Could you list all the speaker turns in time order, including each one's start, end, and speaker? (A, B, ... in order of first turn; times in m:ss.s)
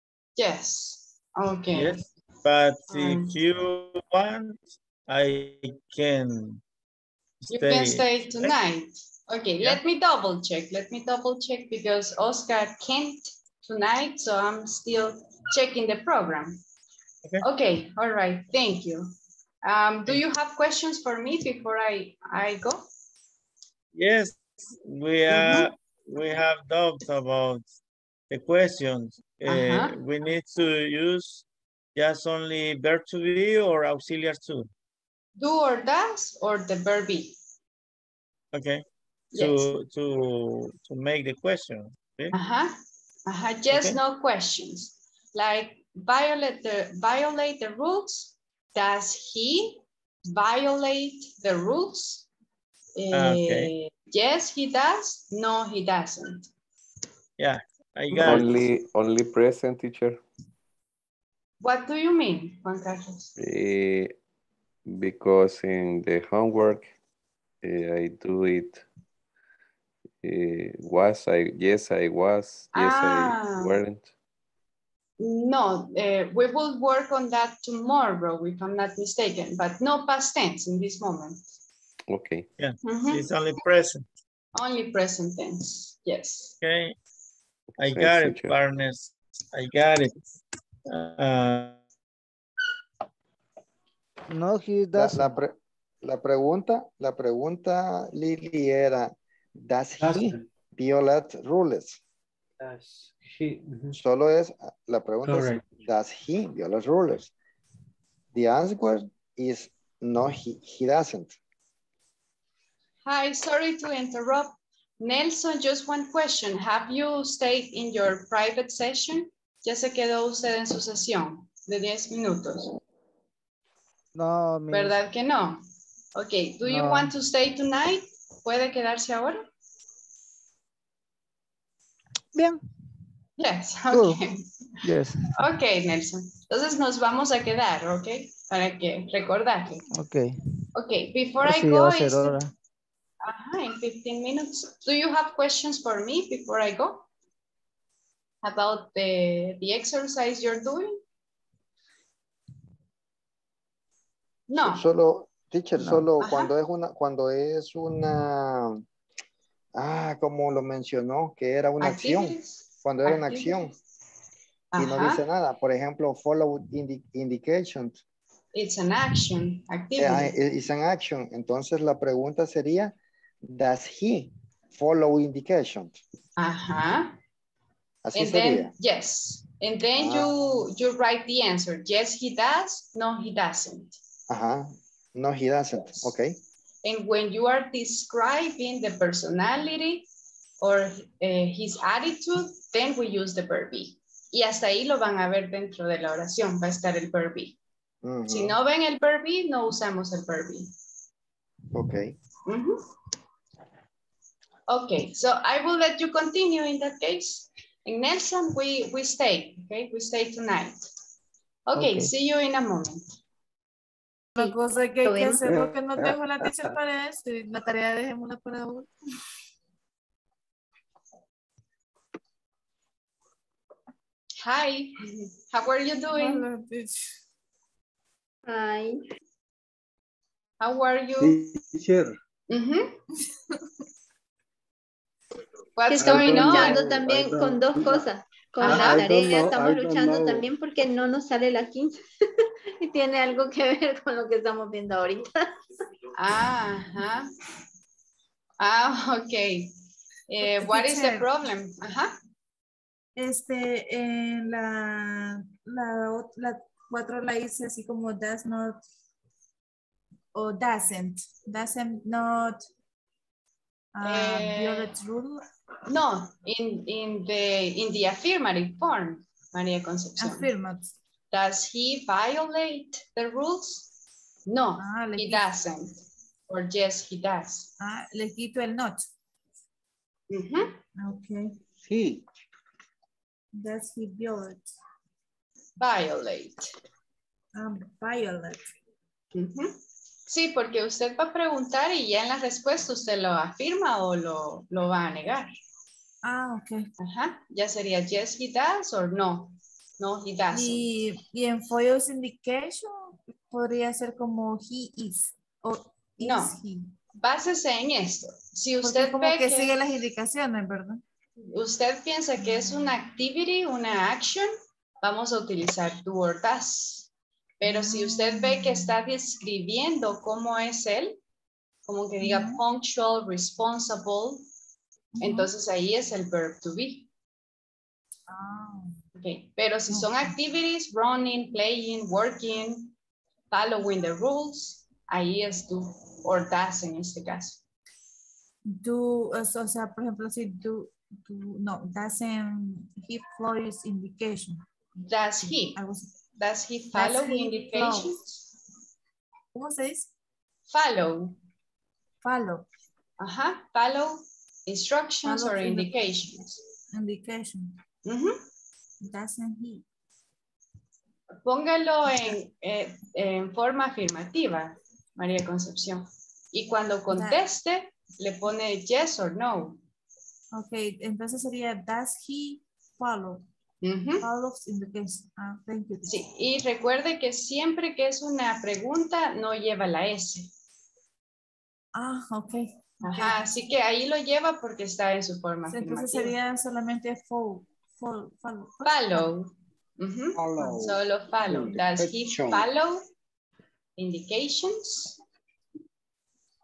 0:00.4-0:02.0 A
0:01.7-0:06.6 B
0:02.9-0:03.4 A
0:07.5-0:08.5 B
0:07.5-0:16.6 A
0:17.4-0:19.1 A
0:19.6-0:22.8 A
0:24.0-0:27.6 B
0:25.3-0:25.7 A
0:28.3-0:34.7 B
0:29.5-0:29.9 A
0:35.4-0:37.4 A
0:38.5-0:42.3 B
0:39.3-0:39.7 A
0:42.3-0:42.7 A
0:43.3-0:52.3 A
0:43.7-0:44.0 B
0:53.0-0:56.5 A
0:53.1-0:53.7 B
0:57.4-0:58.7 B
0:58.2-1:00.2 C
1:01.6-1:03.3 A
1:03.4-1:04.1 C
1:04.9-1:06.9 C
1:07.6-1:08.8 C
1:10.2-1:14.1 C
1:12.7-1:13.8 A
1:15.2-1:21.5 A
1:22.1-1:22.5 C
1:22.6-1:24.0 B
1:22.8-1:23.2 A
1:24.6-1:26.6 A
1:26.6-1:27.0 B
1:27.8-1:30.2 B
1:27.8-1:28.6 C
1:30.9-1:31.8 B
1:34.3-1:35.4 D
1:35.0-1:42.0 E
1:40.0-1:40.4 F
1:42.6-1:44.0 F
1:44.0-1:47.3 E
1:45.2-1:45.7 F
1:48.3-1:51.4 E
1:53.0-2:02.7 A
2:04.2-2:05.0 D
2:04.7-2:05.6 A
2:06.2-2:09.4 A
2:06.6-2:07.1 D
2:12.4-2:12.6 D
2:13.4-2:14.5 A
2:13.9-2:14.2 D
2:14.8-2:15.3 D
2:15.4-2:19.8 A
2:19.9-2:20.3 D
2:20.8-2:22.4 A
2:21.4-2:22.5 D
2:23.2-2:27.1 A
2:28.4-2:31.0 A
2:34.5-2:34.8 A
2:34.6-2:38.8 E
2:35.8-2:36.1 D
2:36.2-2:36.5 A
2:39.8-2:43.7 E
2:41.8-2:43.6 A
2:44.7-2:45.2 A
2:44.8-2:48.0 E
2:48.5-2:50.3 A
2:50.0-2:56.0 E
2:56.4-2:57.2 A
2:58.0-2:58.7 E
2:58.2-3:04.0 A
3:00.0-3:00.3 E
3:04.3-3:06.4 E
3:06.8-3:10.1 A
3:10.6-3:17.6 A
3:18.0-3:18.6 E
3:18.3-3:20.7 A
3:21.7-3:22.2 E
3:22.5-3:22.8 A
3:24.7-3:30.8 A
3:31.7-3:33.0 A
3:31.8-3:32.1 D
3:34.4-3:35.7 G
3:34.4-3:38.9 H
3:35.5-3:36.1 I
3:44.4-3:46.5 A
3:46.1-3:47.0 H
3:48.5-3:49.0 G
3:50.6-3:51.4 A
3:51.2-3:52.2 I
3:52.5-3:53.0 A
3:55.8-3:56.8 A
3:55.9-4:02.0 G
3:56.0-3:58.1 I
3:58.6-3:59.0 A
3:58.6-4:00.5 I
4:02.8-4:05.4 G
4:06.2-4:07.3 A
4:08.6-4:09.7 A
4:10.3-4:12.1 A
4:10.4-4:11.3 H
4:13.2-4:18.8 H
4:20.3-4:22.7 H
4:24.0-4:25.4 H
4:24.0-4:24.9 A
4:25.9-4:30.5 A
4:30.2-4:30.9 H
4:31.3-4:33.9 A
4:34.5-4:37.7 A
4:34.8-4:35.5 H
4:37.8-4:39.1 H
4:40.3-4:40.8 A
4:41.0-4:41.6 H
4:41.8-4:42.2 I
4:43.5-4:44.7 H
4:45.8-4:46.7 A
4:47.6-4:48.7 H
4:49.3-4:49.7 A
4:50.3-4:55.5 A
4:56.2-4:56.9 H
4:57.0-5:00.8 A
5:00.5-5:06.9 H
5:06.2-5:06.6 A
5:07.2-5:09.7 A
5:08.8-5:11.0 H
5:11.5-5:14.5 A
5:12.4-5:12.7 H
5:15.0-5:17.1 A
5:17.6-5:21.2 A
5:17.6-5:19.0 H
5:21.9-5:24.4 A
5:22.2-5:22.6 H
5:25.2-5:25.5 H
5:25.2-5:27.1 A
5:28.3-5:29.0 H
5:29.2-5:32.9 A
5:29.9-5:30.4 H
5:33.5-5:37.6 A
5:38.7-5:44.6 H
5:45.0-5:45.8 A
5:45.7-5:46.1 H
5:46.4-5:48.4 A
5:46.9-5:48.2 H
5:49.5-5:50.1 H
5:50.7-5:51.4 A
5:52.2-5:52.7 H
5:53.2-5:56.6 A
5:55.2-5:56.0 H
5:56.9-5:57.8 H
5:58.0-5:58.4 A
5:59.0-5:59.8 H
6:01.4-6:09.8 A
6:07.1-6:07.4 H
6:10.5-6:13.4 H
6:13.8-6:14.3 A
6:14.2-6:16.2 H
6:16.0-6:20.5 A
6:22.0-6:23.4 H
6:23.0-6:26.4 A
6:25.7-6:29.3 H
6:28.8-6:33.0 A
6:30.4-6:32.7 I
6:34.0-6:35.2 A